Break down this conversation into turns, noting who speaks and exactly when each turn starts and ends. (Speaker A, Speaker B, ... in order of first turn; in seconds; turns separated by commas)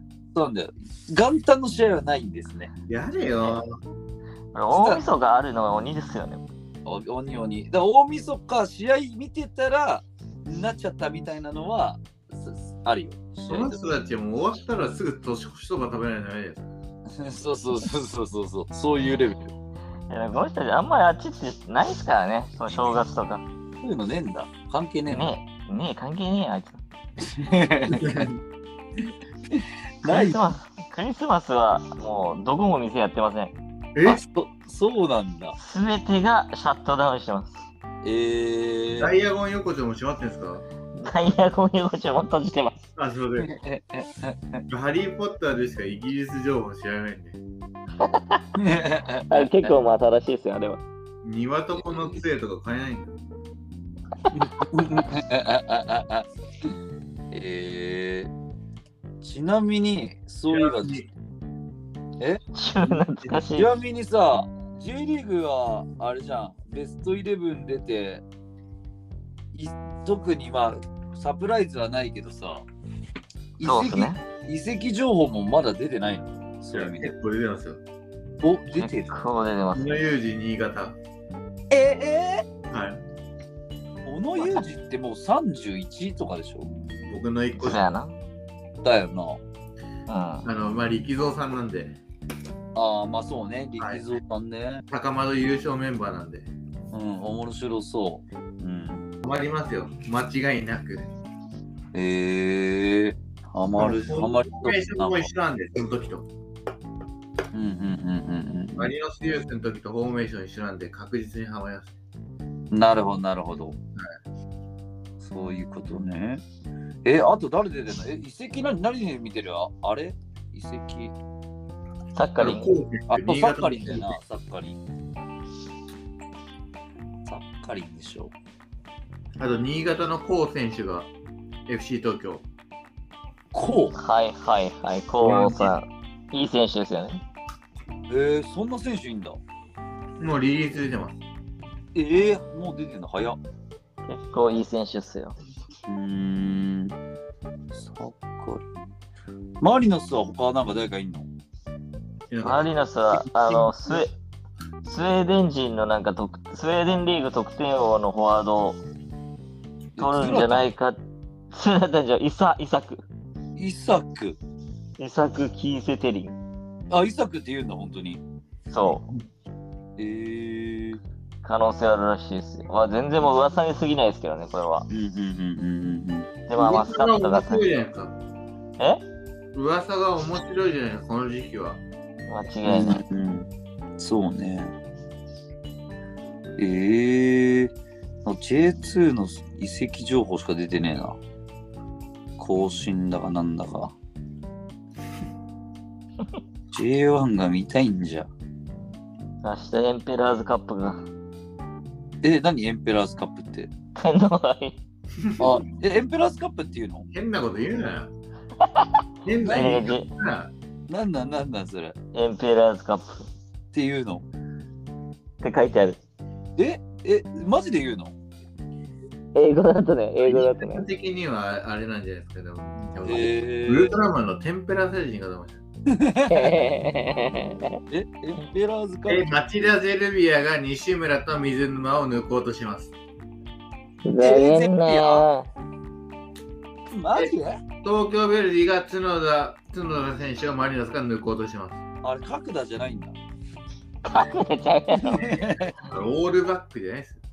Speaker A: 0.3-2.7, Speaker B: 2.9-3.7, Speaker C: 4.5-6.4, Speaker A: 4.7-5.0, Speaker A: 6.8-13.8, Speaker B: 13.5-16.7, Speaker A: 17.1-19.5, Speaker C: 20.1-23.4, Speaker A: 23.8-25.3, Speaker C: 25.1-26.8, Speaker A: 27.2-28.3, Speaker B: 27.9-28.3, Speaker A: 29.5-30.4, Speaker C: 30.1-33.5, Speaker B: 33.9-34.2, Speaker A: 34.0-35.6, Speaker C: 35.6-37.6, Speaker A: 38.0-39.1, Speaker B: 39.0-40.6, Speaker C: 40.9-42.8, Speaker B: 43.0-43.5, Speaker A: 43.4-44.6, Speaker B: 44.7-47.4, Speaker C: 48.0-48.4, Speaker A: 48.5-49.7, Speaker C: 49.3-50.8, Speaker B: 51.2-53.2, Speaker A: 51.8-52.2, Speaker A: 54.3-56.3, Speaker A: 57.3-58.3, Speaker A: 59.2-61.1, Speaker B: 60.5-61.1, Speaker C: 62.5-63.7, Speaker A: 63.4-68.2, Speaker A: 69.5-72.7, Speaker A: 73.6-77.1, Speaker C: 73.6-74.2, Speaker B: 76.7-77.8, Speaker A: 78.4-79.2, Speaker C: 78.7-80.0, Speaker B: 79.7-81.0, Speaker A: 81.7-82.5, Speaker B: 82.7-83.0, Speaker A: 84.0-86.7, Speaker B: 87.1-87.8, Speaker C: 87.6-88.2, Speaker A: 88.8-89.4, Speaker C: 90.1-90.5, Speaker B: 90.4-92.0, Speaker A: 92.7-94.8, Speaker B: 94.9-96.5, Speaker A: 96.9-99.1, Speaker B: 99.2-101.1, Speaker A: 101.9-105.3, Speaker B: 103.8-106.3, Speaker A: 107.5-108.9, Speaker B: 108.8-111.9, Speaker A: 112.7-113.8, Speaker A: 115.2-116.4, Speaker A: 117.0-121.1, Speaker C: 122.1-122.7, Speaker B: 122.4-124.2, Speaker A: 123.1-124.8, Speaker A: 127.3-128.3, Speaker B: 129.4-131.1, Speaker B: 131.7-132.4, Speaker A: 133.5-133.9, Speaker C: 133.9-137.2, Speaker B: 135.2-135.7, Speaker A: 138.1-139.4, Speaker B: 140.2-141.1, Speaker A: 141.9-143.4, Speaker C: 144.1-145.4, Speaker A: 145.9-146.9, Speaker A: 147.7-148.7, Speaker A: 149.6-151.3, Speaker B: 152.3-152.7, Speaker C: 152.4-154.1, Speaker B: 153.4-154.0, Speaker C: 154.8-158.8, Speaker A: 159.9-160.7, Speaker C: 160.0-161.0, Speaker C: 161.5-163.1, Speaker A: 163.6-164.4, Speaker C: 165.0-166.4, Speaker A: 166.9-168.2, Speaker C: 168.7-169.1, Speaker A: 170.0-171.0, Speaker C: 171.4-174.9, Speaker A: 174.9-176.3, Speaker C: 176.5-177.7, Speaker B: 176.6-178.2, Speaker B: 179.5-181.8, Speaker C: 182.3-183.0, Speaker A: 182.7-184.7, Speaker A: 186.6-187.7, Speaker A: 188.2-191.2, Speaker A: 192.4-193.9, Speaker A: 196.7-198.3, Speaker C: 199.4-201.1, Speaker A: 202.2-203.7, Speaker C: 203.9-204.8, Speaker B: 205.2-205.6, Speaker A: 205.4-207.1, Speaker B: 207.1-208.1, Speaker C: 208.6-208.9, Speaker B: 209.2-210.5, Speaker C: 209.4-210.1, Speaker A: 210.9-211.9, Speaker C: 212.1-213.3, Speaker A: 213.7-214.2, Speaker C: 215.4-216.0, Speaker A: 216.6-218.1, Speaker C: 219.3-220.8, Speaker B: 220.2-225.6, Speaker A: 223.0-224.0, Speaker A: 225.9-226.6, Speaker C: 226.3-227.8, Speaker A: 227.9-229.4, Speaker B: 229.1-232.9, Speaker C: 234.1-235.5, Speaker A: 234.2-235.2, Speaker A: 236.9-237.6, Speaker B: 237.1-241.8, Speaker A: 242.0-243.2, Speaker C: 244.1-245.4, Speaker A: 245.1-245.8, Speaker B: 245.8-247.2